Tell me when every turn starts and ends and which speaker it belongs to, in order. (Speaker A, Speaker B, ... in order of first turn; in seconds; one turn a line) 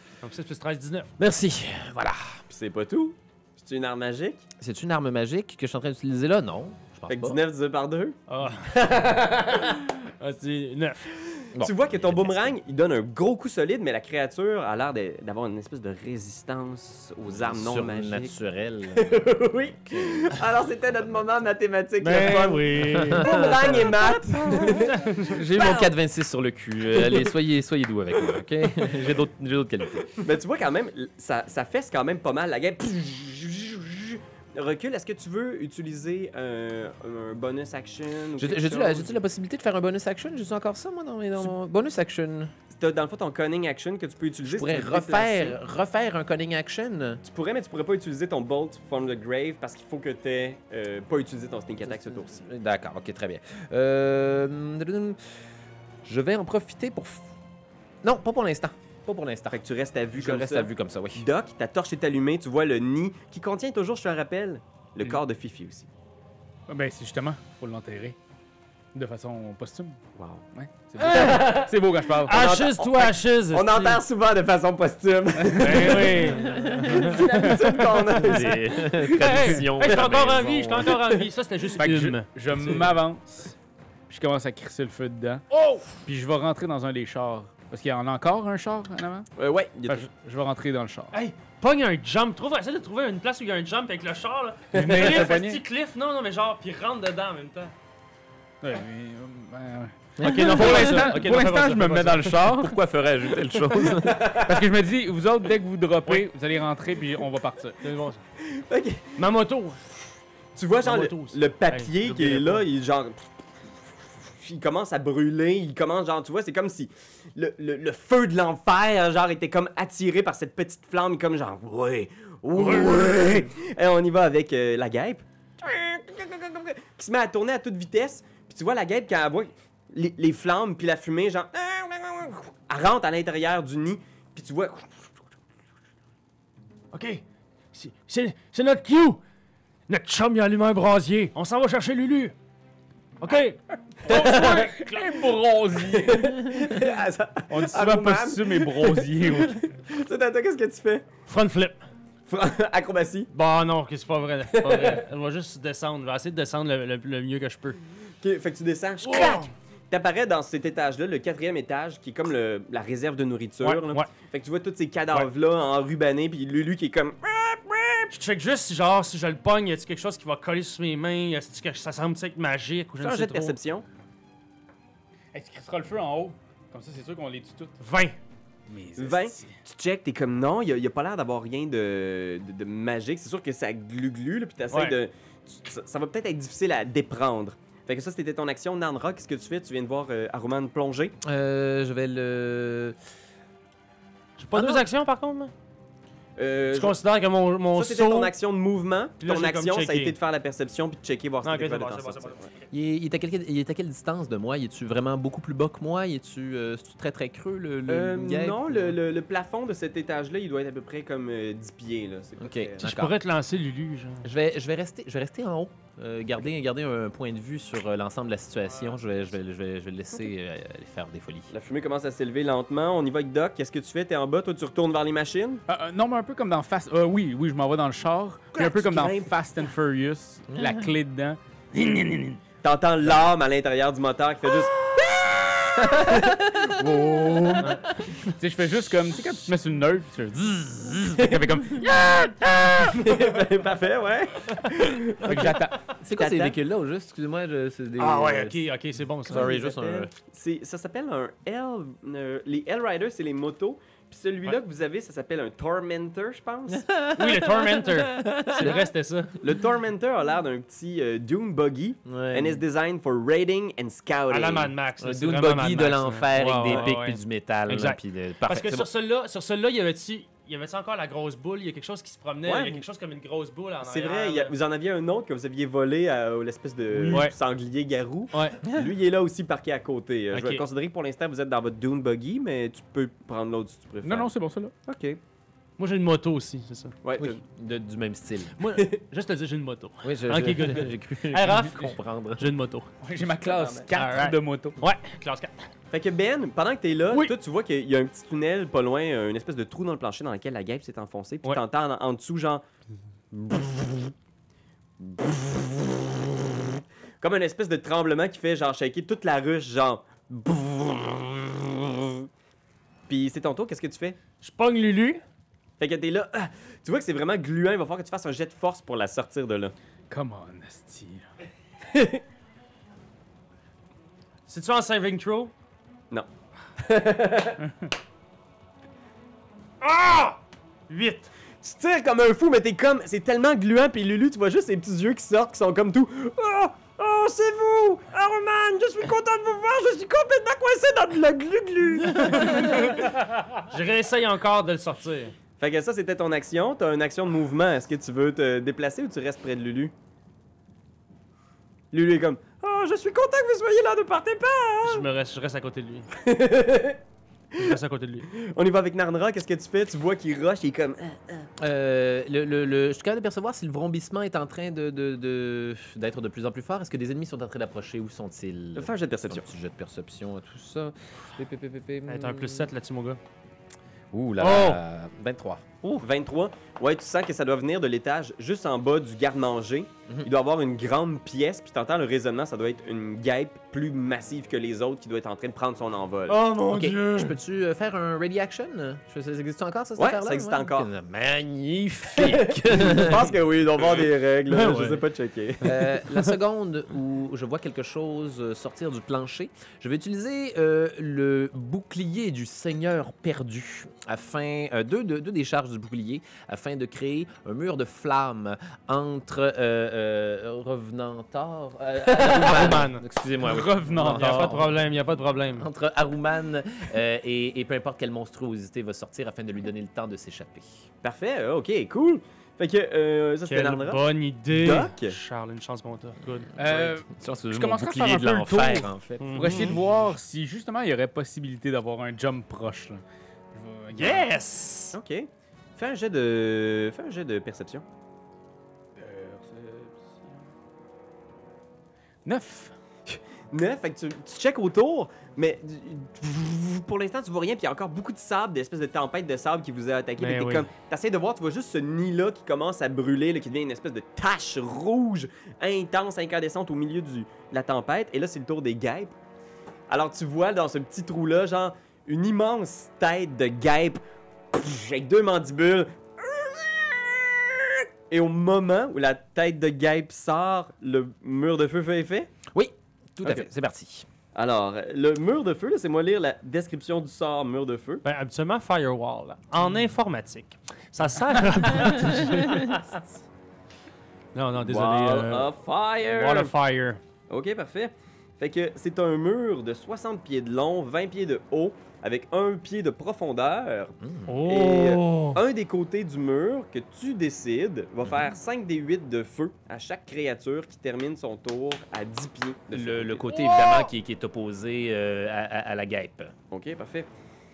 Speaker A: 0.2-1.1
Speaker B: 1.2-2.4
Speaker C: 2.5-4.5
Speaker B: 4.6-7.4
Speaker C: 7.1-9.8
Speaker A: 8.3-8.7
Speaker A: 9.6-11.2
Speaker C: 11.4-18.3
Speaker B: 11.5-12.6
Speaker B: 17.3-20.4
Speaker C: 18.9-25.9
Speaker A: 22.0-23.4
Speaker B: 22.9-23.6
Speaker A: 24.6-25.4
Speaker B: 25.3-30.2
Speaker C: 26.9-27.3
Speaker C: 30.2-39.1
Speaker B: 38.4-42.5
Speaker C: 42.7-45.6
Speaker B: 44.4-47.2
Speaker C: 47.2-52.5
Speaker B: 51.9-55.4
Speaker B: 56.0-57.3
Speaker B: 58.0-59.6
Speaker C: 59.5-65.9
Speaker B: 60.1-61.2
Speaker D: 66.7-68.2
Speaker D: 68.9-70.0
Speaker C: 70.2-70.5
Speaker D: 70.5-72.4
Speaker A: 71.0-71.6
Speaker C: 71.0-71.7
Speaker A: 72.2-74.0
Speaker C: 72.2-80.0
Speaker D: 75.4-77.8
Speaker A: 75.6-77.2
Speaker B: 76.6-77.1
Speaker B: 78.1-81.0
Speaker A: 79.1-82.3
Speaker C: 80.9-81.2
Speaker D: 81.7-83.5
Speaker C: 82.6-82.9
Speaker D: 84.1-85.5
Speaker A: 85.5-85.9
Speaker D: 86.0-89.3
Speaker C: 89.4-90.1
Speaker D: 89.9-91.1
Speaker A: 91.1-97.7
Speaker D: 94.7-95.6
Speaker C: 94.7-95.2
Speaker D: 98.6-102.8
Speaker B: 100.2-101.2
Speaker A: 100.2-102.5
Speaker B: 102.6-104.4
Speaker D: 104.0-107.8
Speaker C: 104.0-104.6
Speaker A: 107.8-108.2
Speaker C: 108.4-109.2
Speaker A: 109.2-110.2
Speaker C: 110.6-135.1
Speaker A: 110.8-112.7
Speaker A: 122.5-123.5
Speaker A: 136.9-139.2
Speaker A: 139.9-142.3
Speaker A: 143.2-145.1
Speaker C: 144.0-144.7
Speaker D: 144.0-146.7
Speaker C: 145.8-151.1
Speaker D: 147.5-149.7
Speaker A: 151.3-151.8
Speaker C: 152.3-153.3
Speaker A: 153.3-157.8
Speaker C: 154.5-155.0
Speaker C: 158.2-168.2
Speaker A: 159.0-159.5
Speaker A: 163.6-164.1
Speaker A: 168.1-173.6
Speaker C: 173.0-173.8
Speaker D: 175.3-177.8
Speaker A: 177.8-178.2
Speaker D: 178.7-179.5
Speaker C: 179.0-191.1
Speaker B: 191.2-193.0
Speaker A: 194.4-195.5
Speaker C: 194.6-194.8
Speaker C: 196.4-197.0
Speaker A: 196.7-198.3
Speaker C: 197.8-202.5
Speaker A: 199.2-200.2
Speaker A: 201.4-202.7
Speaker B: 202.7-209.0
Speaker C: 207.9-212.8
Speaker B: 212.4-213.2
Speaker A: 212.8-214.3
Speaker B: 214.2-221.5
Speaker C: 221.5-225.6
Speaker D: 225.7-232.4
Speaker C: 228.5-229.3
Speaker B: 230.5-230.8
Speaker C: 232.6-235.0
Speaker B: 235.0-237.7
Speaker C: 235.7-237.7
Speaker A: 237.6-238.3
Speaker D: 238.4-242.2
Speaker A: 241.8-243.2
Speaker C: 242.9-246.6
Speaker D: 245.2-245.8
Speaker B: 246.0-248.6
Speaker A: 248.0-249.5
Speaker B: 249.3-250.1
Speaker C: 249.3-256.9
Speaker B: 256.7-258.9
Speaker A: 257.1-259.3
Speaker C: 259.4-264.7
Speaker B: 262.1-262.6
Speaker A: 264.3-274.5
Speaker B: 265.0-268.9
Speaker C: 272.5-272.8
Speaker C: 273.8-284.3
Speaker D: 276.9-277.2
Speaker A: 278.3-278.6
Speaker A: 280.3-280.6
Speaker D: 284.0-284.7
Speaker C: 284.9-285.2
Speaker A: 285.8-286.9
Speaker C: 287.0-287.4
Speaker B: 287.2-288.6
Speaker A: 288.6-292.9
Speaker B: 290.0-292.5
Speaker D: 293.0-294.8
Speaker C: 293.4-293.9
Speaker A: 293.9-295.6
Speaker C: 295.9-302.6
Speaker C: 303.3-304.1
Speaker C: 305.0-312.3
Speaker C: 313.1-314.2
Speaker A: 314.4-315.2
Speaker C: 315.8-319.7
Speaker D: 320.1-321.3
Speaker C: 321.9-322.2
Speaker A: 324.5-325.5
Speaker C: 326.8-327.6
Speaker A: 329.8-331.3
Speaker C: 331.6-342.8
Speaker A: 342.1-345.4
Speaker C: 345.6-349.9
Speaker C: 351.9-355.1
Speaker A: 354.9-356.1
Speaker C: 356.1-357.0
Speaker A: 357.6-358.3
Speaker C: 358.3-361.5
Speaker B: 361.6-372.7
Speaker C: 368.8-369.5
Speaker A: 372.1-373.2
Speaker B: 374.1-375.6
Speaker A: 374.4-374.8
Speaker C: 376.0-386.4
Speaker A: 386.3-387.4
Speaker B: 386.7-393.3
Speaker C: 390.0-390.9
Speaker C: 392.2-396.0
Speaker A: 394.5-395.0
Speaker B: 395.6-414.8
Speaker A: 412.1-413.0
Speaker D: 413.4-414.7
Speaker A: 414.1-415.7
Speaker B: 415.5-420.9
Speaker C: 421.0-425.2
Speaker A: 423.5-426.8
Speaker B: 426.2-429.7
Speaker D: 426.6-434.3
Speaker A: 429.2-429.8
Speaker A: 433.9-435.0
Speaker C: 434.9-437.9
Speaker D: 439.0-440.5
Speaker D: 442.2-442.7
Speaker C: 443.1-459.1
Speaker A: 450.2-450.7
Speaker C: 459.9-464.0
Speaker C: 464.5-472.3
Speaker B: 472.5-474.1
Speaker C: 474.4-478.0
Speaker A: 478.0-482.8
Speaker A: 484.4-487.0
Speaker C: 484.6-486.5
Speaker C: 487.3-503.3
Speaker B: 494.0-494.4
Speaker A: 494.3-495.4
Speaker B: 498.0-498.3
Speaker B: 502.7-506.3
Speaker A: 503.4-503.9
Speaker C: 506.5-507.1